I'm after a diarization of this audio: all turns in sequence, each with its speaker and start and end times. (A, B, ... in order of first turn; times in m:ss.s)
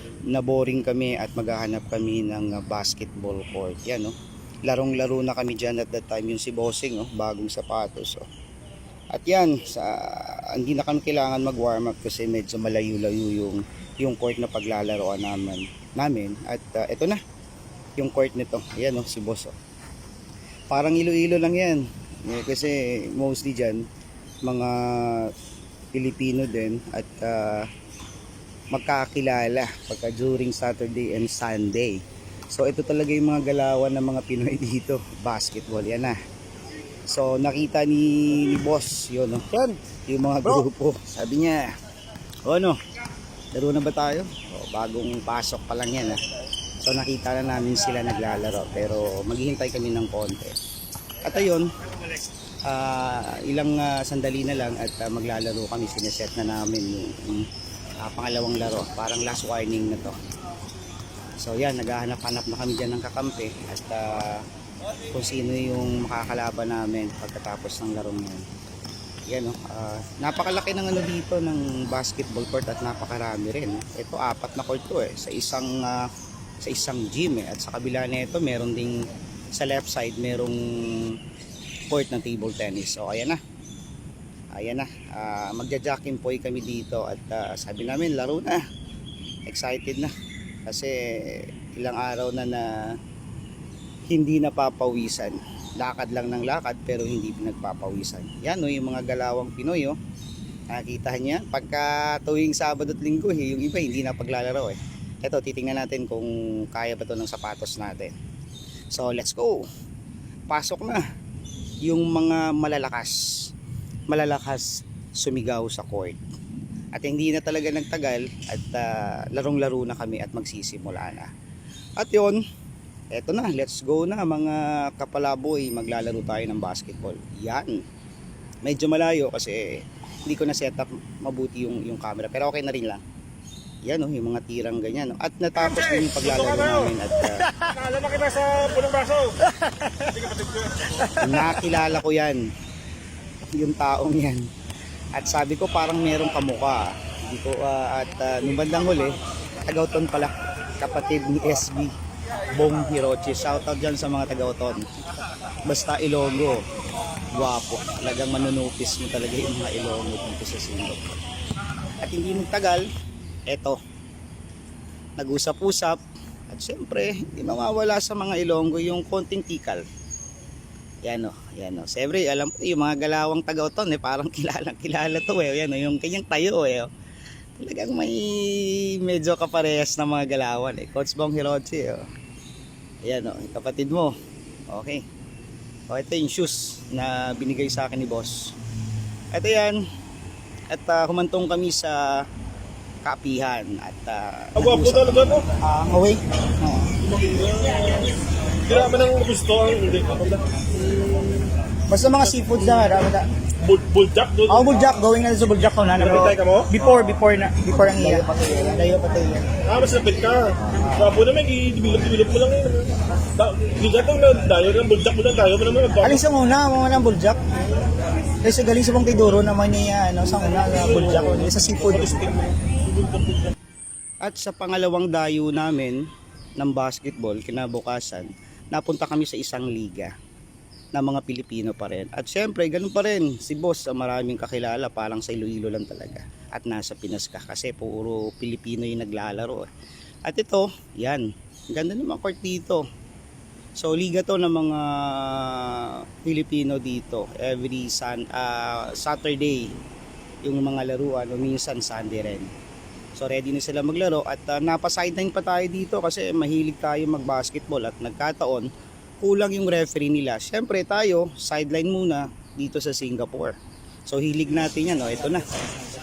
0:00.3-0:04.1 A
0:04.7-0:08.2 A
0:09.1-0:17.2 A
0:18.0-0:19.6 A
0:20.7-0:23.8 A
0:24.4-0:25.3 A
0:25.9-0:27.7 A
0:28.7-0:36.2 A
0:37.1-0:41.6 A
0:42.4-0:42.8 A
0:43.5-0:46.2 A
0:46.8-0:50.6 A
0:51.2-0:51.7 A
0:52.7-0:57.5 A
0:58.0-1:00.2 A
1:01.4-1:04.4 A
1:05.1-1:08.4 A
1:09.3-1:16.1 A
1:16.6-1:19.0 A
1:19.6-1:21.2 A
1:21.9-1:23.4 A
1:24.5-1:28.6 A
1:29.5-1:30.1 A
1:30.7-1:33.0 A
1:34.1-1:40.0 A
1:40.7-1:48.1 A
1:48.9-1:49.7 A
1:50.5-1:51.0 A
1:51.8-1:53.2 A
1:54.1-1:56.2 A
1:56.9-2:01.3 A
2:02.0-2:02.4 A
2:03.1-2:07.8 A
2:08.6-2:13.0 A
2:13.8-2:17.5 A
2:15.7-2:16.9 B
2:17.5-2:21.0 B
2:21.1-2:22.4 A
2:23.5-2:24.5 A
2:25.2-2:31.9 A
2:32.5-2:34.9 A
2:35.6-2:36.6 A
2:37.3-2:41.2 A
2:42.0-2:42.8 A
2:43.5-2:43.8 A
2:45.2-2:49.8 A
2:51.0-2:56.9 A
2:57.6-3:02.1 A
3:03.0-3:04.2 A
3:04.7-3:05.0 A
3:05.9-3:08.5 A
3:09.3-3:09.8 A
3:10.7-3:12.2 A
3:13.0-3:16.9 A
3:14.6-3:15.4 B
3:17.0-3:20.4 B
3:21.9-3:23.3 A
3:23.6-3:24.9 B
3:24.5-3:29.5 A
3:26.0-3:26.7 B
3:29.6-3:36.2 B
3:30.7-3:31.2 A
3:36.0-3:37.5 A
3:38.4-3:42.2 A
3:40.8-3:43.5 B
3:44.2-3:46.0 A
3:46.6-3:50.1 A
3:50.9-3:59.7 A
4:00.2-4:02.8 A
4:03.8-4:09.7 A
4:10.4-4:12.5 A
4:13.1-4:18.7 A
4:19.2-4:23.6 A
4:24.1-4:25.5 A